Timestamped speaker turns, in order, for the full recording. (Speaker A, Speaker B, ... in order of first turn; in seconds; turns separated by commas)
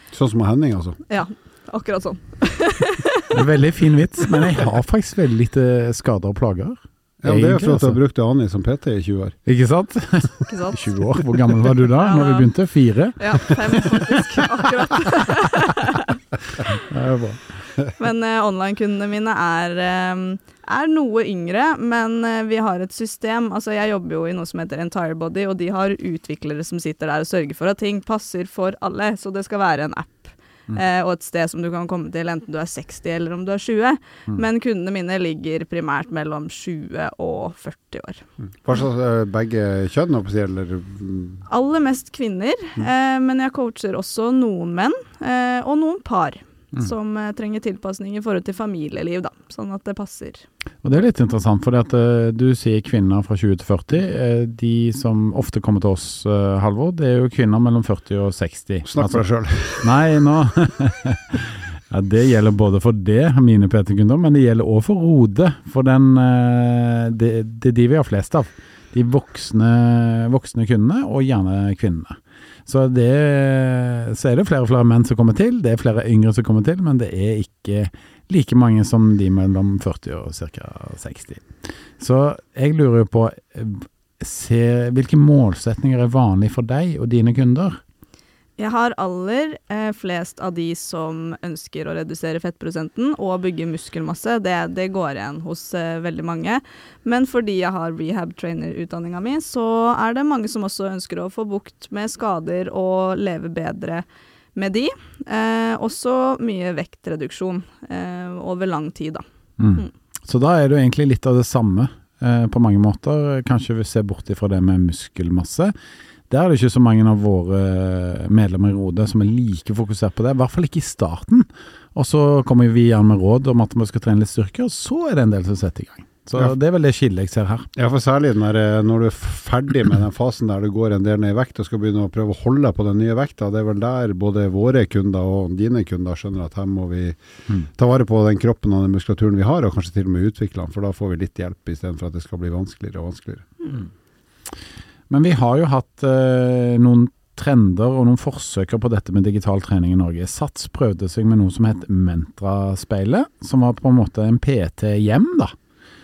Speaker A: 0.1-1.0, Speaker B: 1.1-3.4, Speaker C: 3.3-8.0, Speaker A: 7.2-9.4, Speaker C: 9.5-14.2, Speaker B: 10.5-10.8, Speaker B: 12.0-12.5, Speaker B: 13.2-16.2, Speaker C: 16.8-17.4, Speaker B: 18.0-38.2, Speaker A: 38.6-41.5, Speaker B: 41.5-50.5, Speaker C: 50.8-59.2, Speaker A: 58.9-60.0, Speaker C: 59.8-81.5, Speaker C: 82.0-87.8, Speaker B: 88.6-104.0, Speaker B: 104.6-109.2, Speaker C: 109.6-115.7, Speaker C: 116.3-127.7, Speaker A: 127.8-137.2, Speaker A: 137.8-143.5, Speaker C: 145.1-155.5